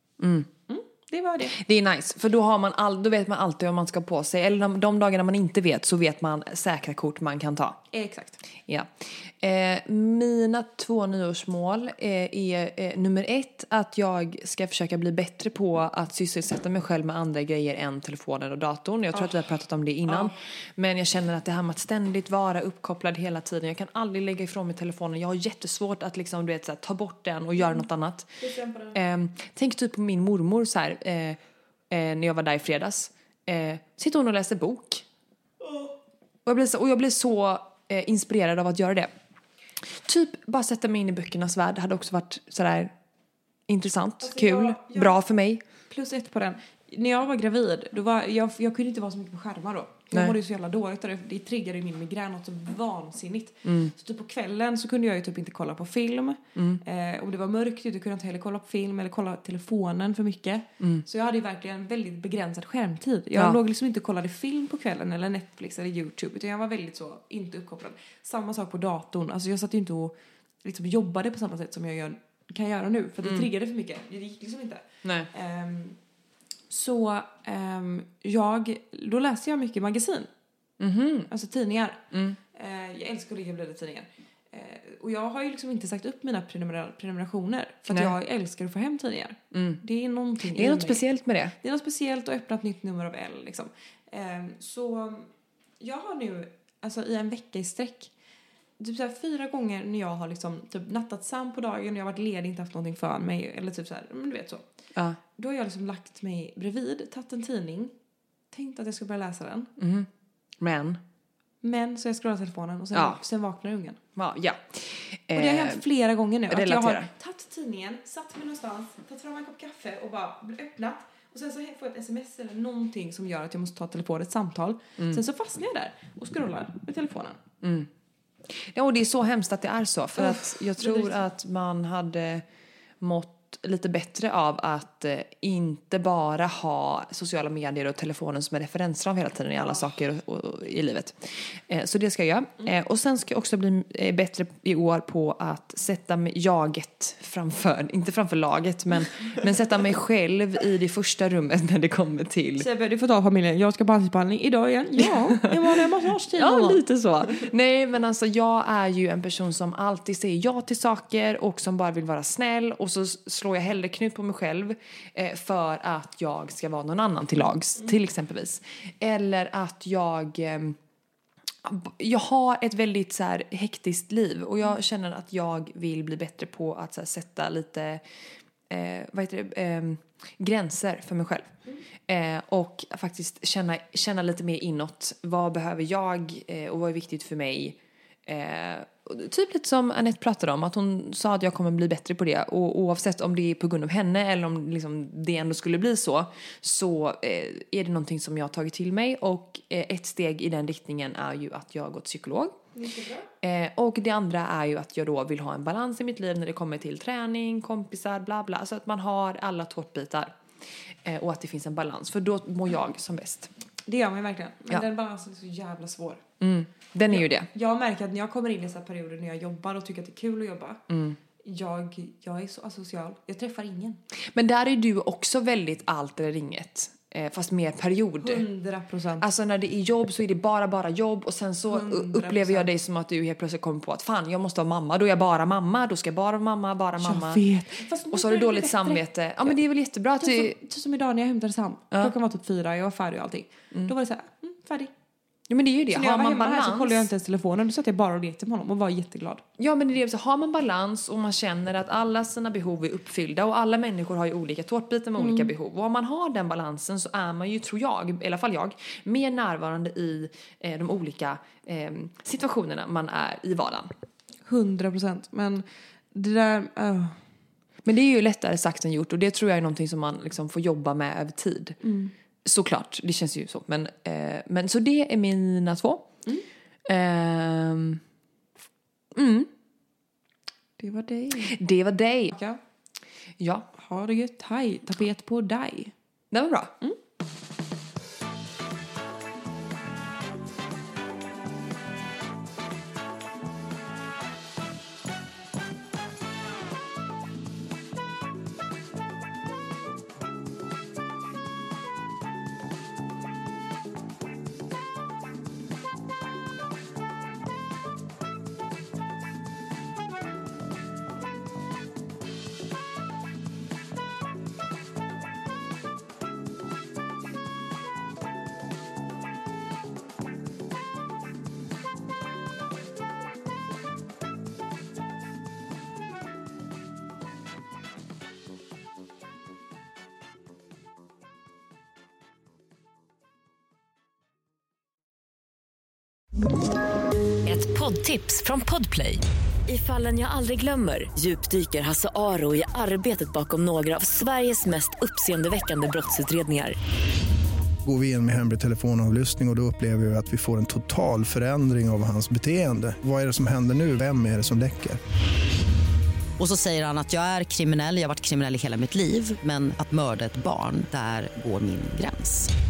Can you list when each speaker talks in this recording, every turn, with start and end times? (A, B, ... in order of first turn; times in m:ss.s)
0:00.2-0:00.5 A
0:00.7-0:01.6 B
0:01.5-0:07.8 A
0:07.9-0:08.4 B
0:08.7-0:28.4 A
0:28.4-0:29.0 B
0:28.9-0:31.4 A
0:31.9-0:35.0 A
0:35.6-0:36.0 B
0:36.4-0:39.1 A
0:39.9-0:42.9 A
0:43.7-0:45.6 A
0:44.2-0:45.2 B
0:45.9-1:16.0 B
0:53.6-0:53.9 A
0:56.6-0:56.8 A
1:13.2-1:13.5 A
1:16.7-1:20.3 B
1:20.8-1:21.3 A
1:21.3-1:31.0 B
1:22.1-1:22.4 A
1:29.5-1:29.8 A
1:30.5-1:31.6 A
1:31.6-1:38.1 B
1:38.8-1:44.7 B
1:45.3-1:47.9 B
1:48.5-1:49.7 B
1:49.8-1:50.1 A
1:50.6-1:51.0 A
1:51.6-1:54.0 B
1:52.9-1:53.2 A
1:54.2-1:55.8 A
1:55.3-2:07.4 B
1:56.5-1:57.1 A
2:07.6-2:07.9 A
2:08.5-2:12.4 A
2:10.2-2:11.3 B
2:13.0-2:32.7 A
2:32.6-2:36.8 B
2:35.1-2:50.8 A
2:51.6-2:58.0 A
2:58.7-3:01.5 A
3:02.1-3:22.6 A
3:22.7-3:23.3 B
3:23.4-3:30.4 A
3:31.0-3:33.5 A
3:33.9-3:36.2 B
3:36.4-3:37.5 A
3:37.1-3:40.8 B
3:40.9-3:41.2 A
3:41.4-3:44.0 B
3:44.3-3:48.4 A
3:48.2-3:49.3 B
3:49.2-3:57.4 A
3:51.7-3:52.7 B
3:57.0-3:59.6 B
3:58.1-4:00.6 A
4:00.2-4:04.9 B
4:05.5-4:07.1 A
4:05.9-4:09.4 B
4:09.6-4:23.9 A
4:15.2-4:15.5 B
4:24.4-4:27.2 B
4:27.8-4:31.8 A
4:31.8-4:32.1 B
4:32.4-4:36.1 A
4:36.9-4:38.0 A
4:39.1-4:39.5 A
4:40.8-4:41.6 B
4:41.4-4:42.4 A
4:42.3-4:42.6 B
4:43.4-4:43.7 A
4:43.7-4:45.9 B
4:46.3-4:46.8 A
5:37.4-5:46.8 C
5:47.8-5:55.0 D
5:56.4-6:02.5 E